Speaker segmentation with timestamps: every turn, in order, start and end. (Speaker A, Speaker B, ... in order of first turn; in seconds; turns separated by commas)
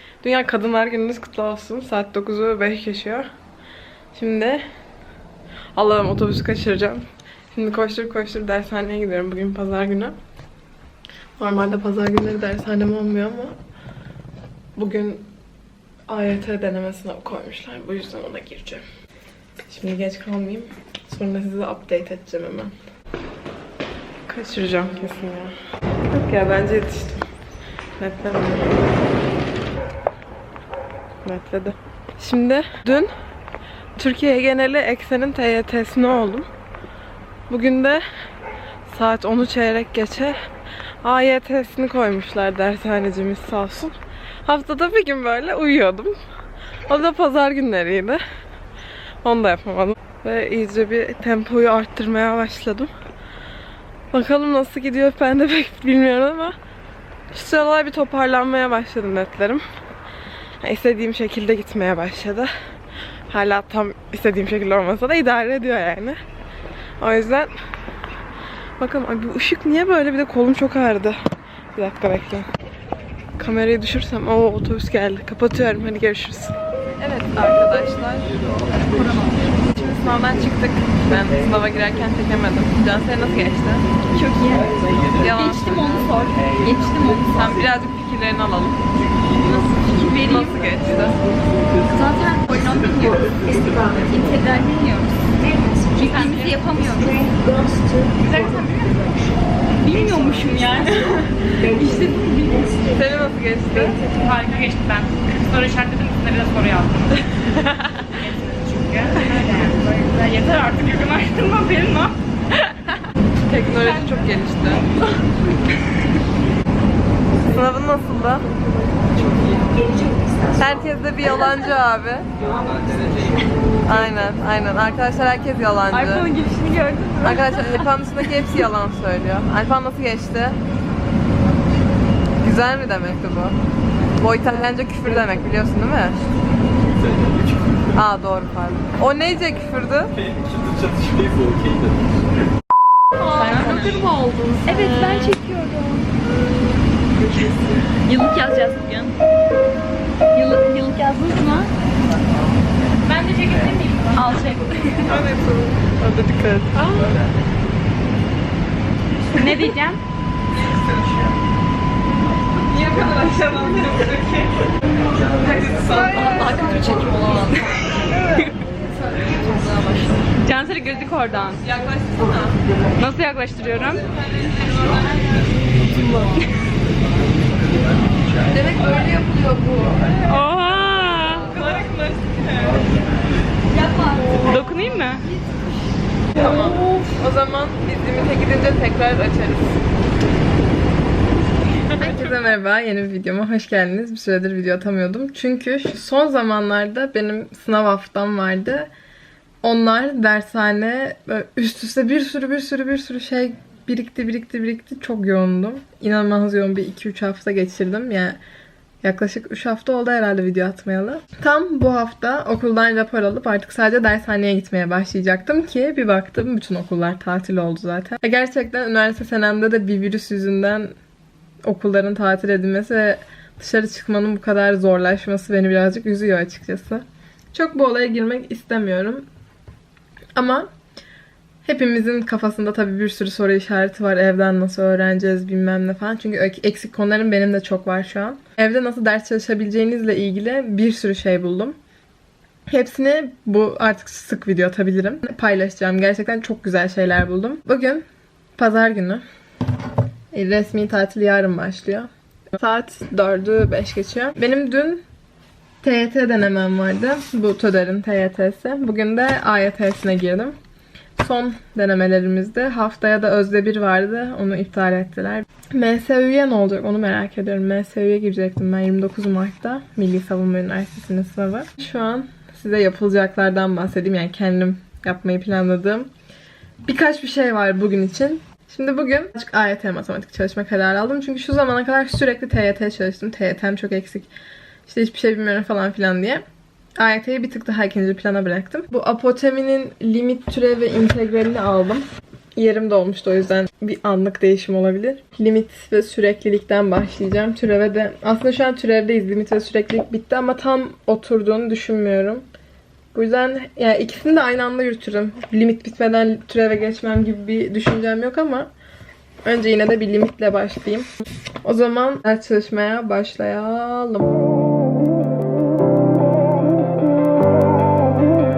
Speaker A: 0.2-3.3, Speaker A: 4.1-4.7, Speaker A: 5.8-10.2, Speaker A: 11.4-13.6, Speaker A: 14.8-15.3, Speaker A: 16.1-18.9, Speaker A: 19.7-22.8, Speaker A: 24.3-25.5, Speaker A: 26.1-27.3, Speaker A: 28.0-28.8, Speaker A: 31.2-33.1, Speaker A: 34.0-36.5, Speaker A: 37.5-38.0, Speaker A: 38.9-40.4, Speaker A: 41.0-46.1, Speaker A: 46.9-48.2, Speaker A: 49.2-52.9, Speaker A: 54.1-56.6, Speaker A: 57.3-59.6, Speaker A: 60.6-62.5, Speaker A: 63.3-66.2, Speaker A: 67.0-67.5, Speaker A: 68.8-71.2, Speaker A: 71.8-72.5, Speaker A: 73.4-83.9, Speaker B: 78.9-79.4, Speaker B: 84.1-87.5, Speaker A: 85.2-85.7, Speaker A: 87.3-88.8, Speaker B: 89.4-90.8, Speaker A: 90.0-91.2, Speaker B: 91.8-95.1, Speaker B: 95.8-98.1, Speaker C: 96.0-96.5, Speaker C: 98.2-99.1, Speaker B: 99.8-102.9, Speaker C: 99.9-100.6, Speaker A: 103.0-104.0, Speaker C: 104.1-107.3, Speaker C: 108.1-112.2, Speaker A: 113.5-114.9, Speaker C: 113.7-114.2, Speaker A: 117.5-118.5, Speaker A: 120.6-122.3, Speaker A: 123.9-126.3, Speaker B: 125.9-127.8, Speaker A: 127.2-130.6, Speaker A: 132.4-133.6, Speaker A: 134.2-136.2, Speaker A: 137.9-140.2, Speaker B: 143.2-144.1, Speaker C: 143.4-143.7, Speaker A: 143.5-145.3, Speaker B: 144.6-146.1, Speaker B: 148.0-149.2, Speaker B: 150.3-151.7, Speaker C: 153.0-154.7, Speaker B: 154.2-155.1, Speaker A: 155.0-157.2, Speaker C: 159.3-160.0, Speaker A: 160.6-161.0, Speaker A: 162.7-164.7, Speaker A: 165.4-170.3, Speaker B: 165.9-168.0, Speaker B: 170.4-171.6, Speaker A: 171.6-172.6, Speaker B: 173.0-174.0, Speaker C: 173.0-174.0, Speaker B: 176.0-176.4, Speaker A: 178.5-180.1, Speaker B: 180.3-181.6, Speaker A: 181.4-182.7, Speaker B: 183.7-185.2, Speaker A: 186.4-189.8, Speaker A: 191.9-198.9, Speaker A: 199.6-208.4, Speaker A: 209.0-220.9, Speaker A: 221.6-229.3, Speaker A: 230.4-230.7, Speaker A: 231.7-241.8, Speaker A: 242.7-248.1, Speaker A: 248.6-249.2, Speaker A: 250.3-255.0, Speaker A: 255.8-260.6, Speaker A: 261.2-276.1, Speaker A: 276.9-284.3, Speaker A: 284.9-286.4, Speaker A: 287.0-302.4, Speaker A: 303.1-308.7, Speaker A: 309.4-311.1, Speaker A: 311.6-314.4